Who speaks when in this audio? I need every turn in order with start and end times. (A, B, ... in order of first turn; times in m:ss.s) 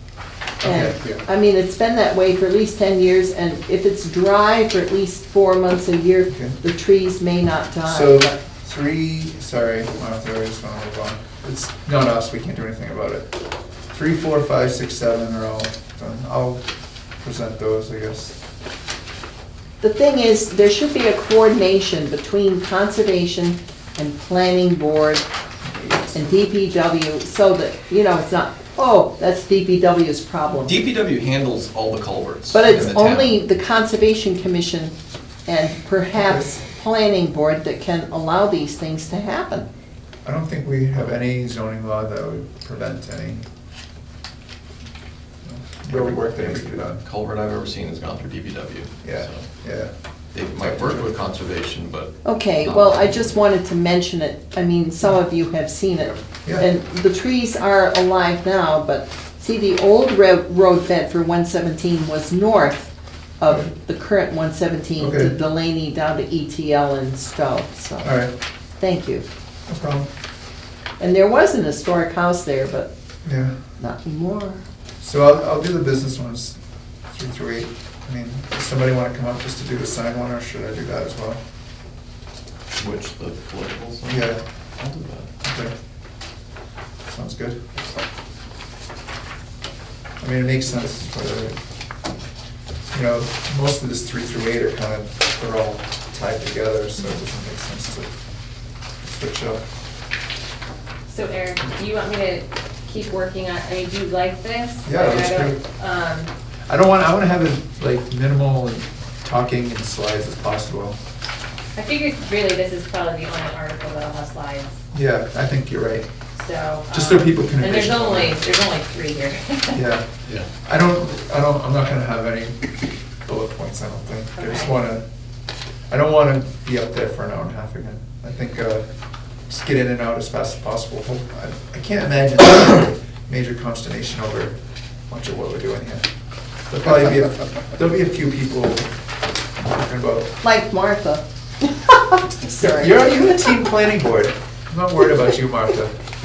0:00.6-0:01.0 A
0:00.6-0:08.4 B
0:06.3-0:06.6 A
0:07.8-0:13.4 A
0:13.9-0:16.6 A
0:17.2-0:18.4 A
0:19.8-0:25.3 B
0:25.7-0:26.1 A
0:26.1-0:30.8 B
0:30.6-0:33.4 C
0:32.5-0:34.9 B
0:35.4-0:39.7 B
0:36.1-0:36.5 A
0:40.2-0:43.4 A
0:45.4-0:47.0 A
0:45.9-0:49.5 C
0:49.0-0:49.9 A
0:50.3-0:53.3 C
0:50.5-0:51.1 A
0:52.2-1:08.2 B
1:05.0-1:05.4 A
1:08.0-1:08.3 A
1:08.8-1:09.2 B
1:09.7-1:10.1 A
1:11.0-1:12.9 B
1:13.2-1:13.5 A
1:13.8-1:14.6 B
1:15.0-1:16.6 A
1:17.1-1:21.4 A
1:22.8-1:25.3 C
1:24.1-1:24.4 A
1:25.4-1:25.7 A
1:27.0-1:27.6 A
1:30.2-1:31.6 A
1:32.9-1:38.1 A
1:39.0-1:39.6 A
1:41.1-1:46.3 D
1:44.8-1:45.6 A
1:46.7-1:51.0 A
1:51.8-1:54.8 D
1:54.9-1:56.1 A
1:56.4-1:59.9 D
1:56.9-1:58.4 A
1:59.7-2:05.0 A
2:04.3-2:04.8 D
2:05.9-2:08.8 A
2:09.5-2:14.6 A
2:15.1-2:16.1 A
2:16.7-2:18.9 A
2:19.6-2:20.3 A
2:20.4-2:23.6 B
2:22.6-2:25.9 A